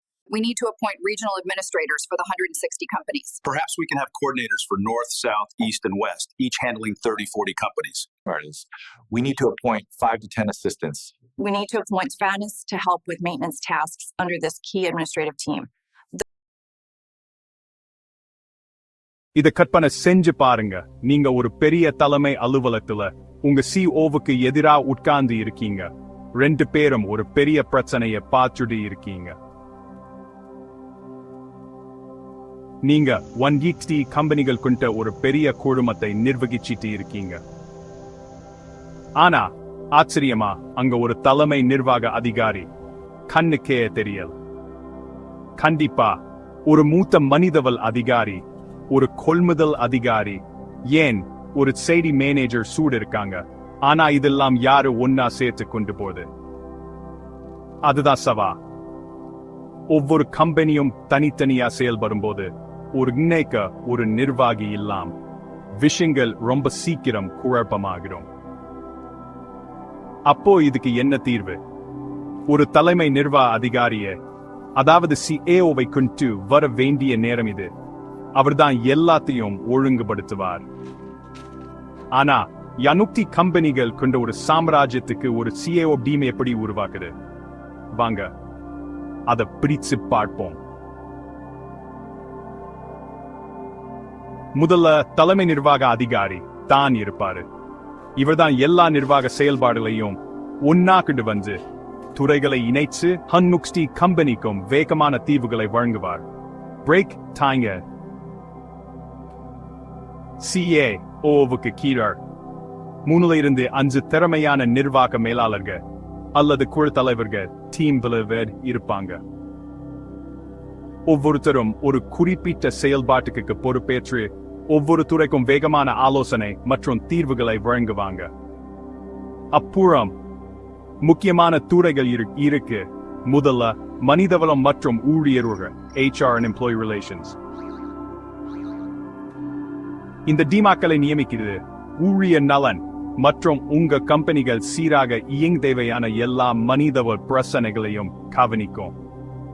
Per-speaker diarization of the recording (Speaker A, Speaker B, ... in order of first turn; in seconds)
Speaker A: 0.3-3.3, 14.5-16.2
Speaker B: 0.6-3.4, 11.4-15.7
Speaker C: 3.4-8.2
Speaker D: 8.2-11.1
Speaker E: 19.4-29.4, 32.8-37.4, 39.2-42.7, 43.3-44.3, 45.6-56.3, 57.9-58.6, 59.9-65.1, 65.8-68.3, 70.3-71.6, 72.5-74.2, 74.8-77.7, 78.4-80.7, 82.1-87.1, 87.9-88.3, 89.3-90.6, 94.5-97.5, 98.2-101.6, 102.2-106.2, 106.8-107.8, 110.4-112.2, 113.1-115.8, 116.3-119.2, 121.1-128.3, 129.5-130.1, 131.0-137.4, 140.3-148.9